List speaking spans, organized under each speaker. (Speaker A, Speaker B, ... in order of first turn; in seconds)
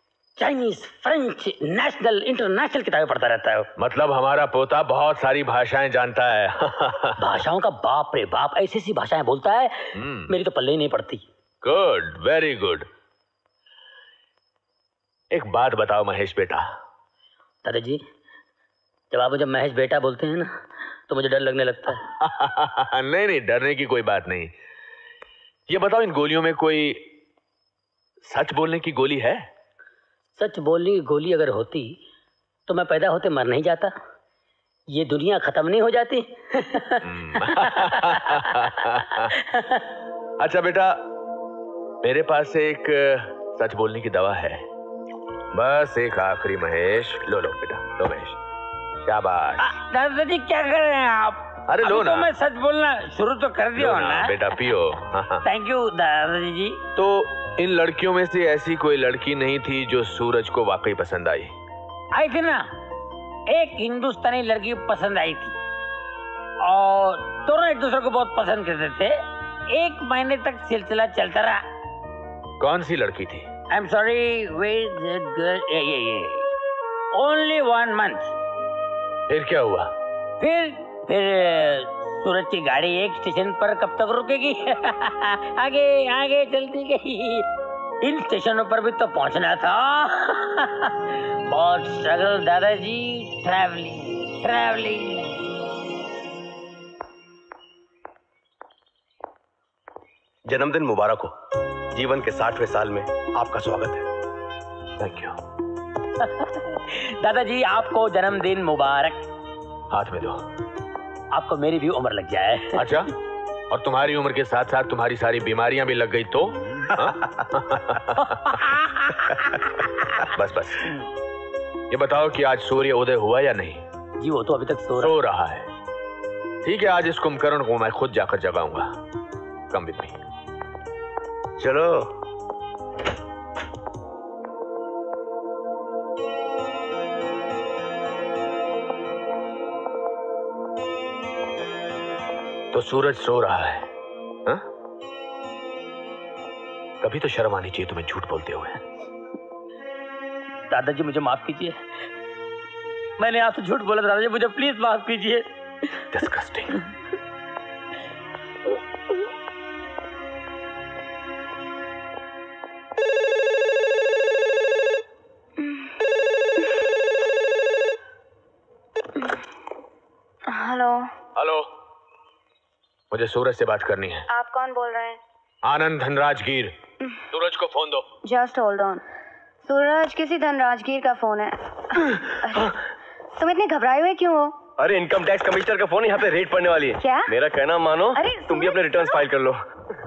Speaker A: 0.4-3.7, 7.2-11.2, 17.6-18.0, 19.1-20.5, 21.1-22.1, 30.4-32.0, 32.7-33.9, 34.9-38.6, 39.2-39.8, 49.6-54.8, 55.4-56.8, 62.1-62.7, 63.5-65.6, 66.6-71.6, 73.7-76.5, 77.1-78.3, 80.4-87.5, 88.0-95.3, 106.2-109.2, 111.3-113.0, 116.6-117.0, 118.4-120.0, 124.2-125.2, 150.7-151.8, 153.2-155.5
Speaker B: 3.8-7.2, 9.9-10.3, 11.6-12.9, 15.3-16.6, 22.2-24.5, 25.7-27.1, 28.2-29.4, 37.0-39.3, 40.4-41.0, 42.0-44.6, 45.5-48.4, 49.0-49.6, 51.7-52.3, 53.8-55.5, 57.0-61.5, 72.6-73.5, 79.3-79.9, 105.0-105.4, 109.9-110.4, 112.8-113.1, 113.7-118.6, 120.2-120.9, 121.9-123.8, 125.0-125.7, 126.6-128.9, 129.7-130.2, 142.7-143.9, 147.0-148.8, 156.1-156.8, 171.4-171.7, 173.1-174.3, 175.6-176.8, 177.3-178.1
Speaker C: 100.5-101.3, 101.9-104.1
Speaker D: 131.6-132.1, 184.8-189.6
Speaker E: 165.6-165.9, 170.5-171.1, 174.3-175.2, 178.2-179.0, 179.6-182.7, 183.4-184.5, 187.0-187.3, 188.1-189.0